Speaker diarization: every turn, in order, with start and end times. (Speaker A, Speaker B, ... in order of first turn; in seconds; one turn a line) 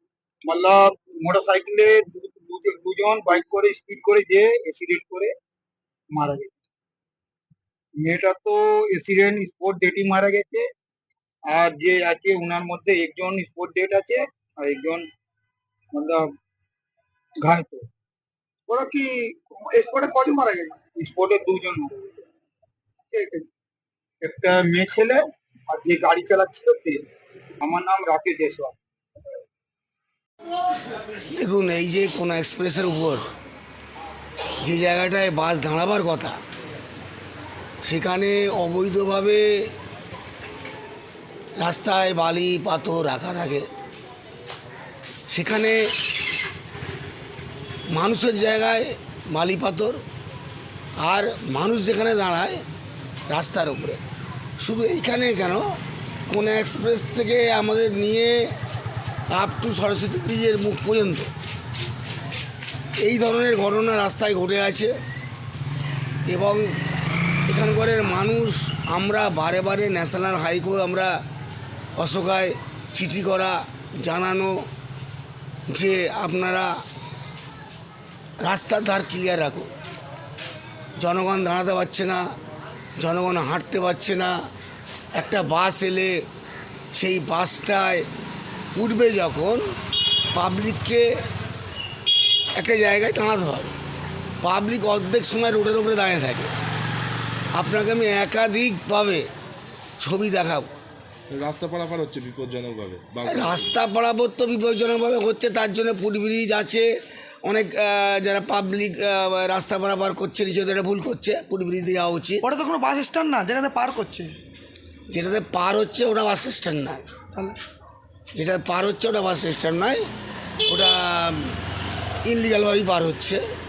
Speaker A: 0.5-5.3
Speaker A: 6.1-6.5
Speaker A: 8.0-10.6
Speaker A: 11.5-15.1
Speaker A: 15.9-16.2
Speaker A: 17.4-17.9
Speaker B: 18.7-20.8
Speaker A: 20.9-22.3
Speaker B: 23.1-23.4
Speaker A: 24.2-27.0
Speaker A: 27.6-28.8
Speaker C: 31.3-33.2
Speaker C: 34.6-36.4
Speaker C: 37.8-39.7
Speaker C: 41.6-43.7
Speaker C: 45.3-45.9
Speaker C: 47.9-50.0
Speaker C: 51.0-52.6
Speaker C: 53.3-54.0
Speaker C: 54.6-55.7
Speaker C: 56.3-58.5
Speaker C: 59.3-61.3
Speaker C: 63.0-64.9
Speaker C: 66.2-66.8
Speaker C: 67.5-71.2
Speaker C: 72.0-74.7
Speaker C: 75.7-76.8
Speaker C: 78.4-79.7
Speaker C: 81.0-82.2
Speaker C: 83.0-84.3
Speaker C: 85.1-86.2
Speaker C: 86.9-88.1
Speaker C: 88.7-89.7
Speaker C: 90.3-91.1
Speaker C: 92.5-93.7
Speaker C: 94.4-96.5
Speaker C: 97.5-99.3
Speaker C: 100.0-100.7
Speaker D: 101.3-103.7
Speaker C: 103.2-106.9
Speaker C: 107.4-112.4
Speaker B: 112.4-114.3
Speaker C: 115.1-117.0
Speaker C: 118.3-120.0
Speaker C: 120.7-121.6
Speaker C: 122.2-123.4